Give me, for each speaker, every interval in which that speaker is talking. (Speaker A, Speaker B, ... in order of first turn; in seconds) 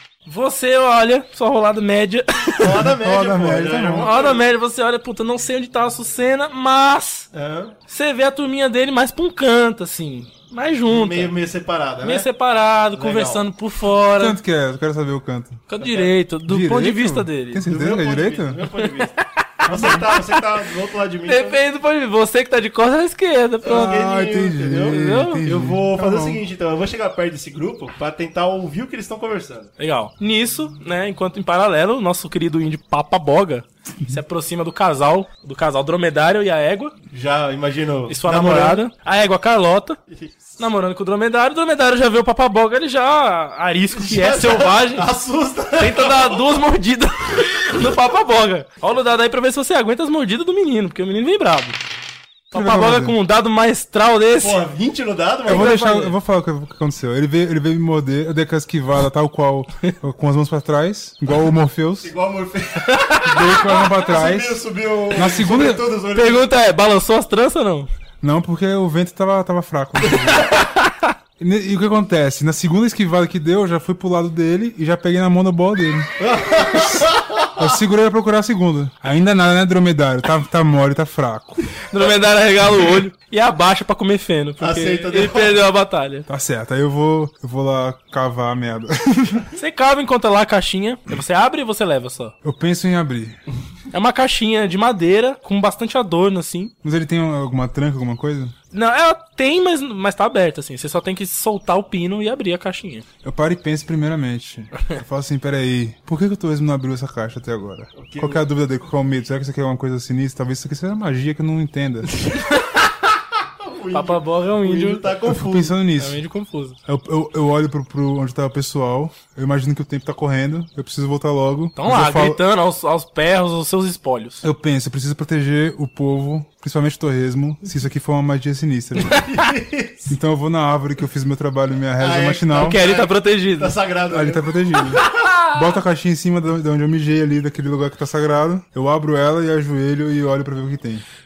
Speaker A: 0.2-2.8, 4.0-7.3, 7.9-11.3, 12.0-14.4, 15.7-17.6, 19.0-20.6, 21.3-23.9, 24.9-25.4, 29.8-36.9, 38.1-40.0, 40.6-45.1, 45.8-51.8, 52.5-54.6, 55.5-56.1, 62.8-63.5, 66.1-67.9, 70.3-71.1, 81.9-86.2, 89.5-92.3, 93.9-96.7, 98.7-103.0, 112.4-112.8, 113.9-115.1, 116.0-116.8, 121.8-124.4, 132.5-133.7, 135.0-135.5
Speaker B: 2.5-4.4, 7.3-7.8, 10.9-12.3, 12.9-13.5, 15.8-16.1, 17.6-21.6, 23.6-29.7, 37.1-38.8, 40.1-40.6, 43.9-46.5, 54.4-56.1, 62.0-66.5, 76.2-77.6, 84.6-85.6, 108.0-108.4, 112.2-112.5, 113.6-115.8, 129.0-130.1, 132.0-135.1
Speaker C: 2.8-4.1, 14.2-15.6, 16.4-18.7, 23.6-26.4, 52.5-53.1, 55.5-62.1, 63.3-64.6, 65.1-65.8, 68.2-70.5, 71.4-76.1, 76.7-77.0, 77.6-81.6, 86.3-89.4, 92.4-93.4, 96.8-98.5, 103.2-112.1, 115.3-116.2, 116.8-122.4, 124.4-129.2, 130.1-132.8, 134.1-141.0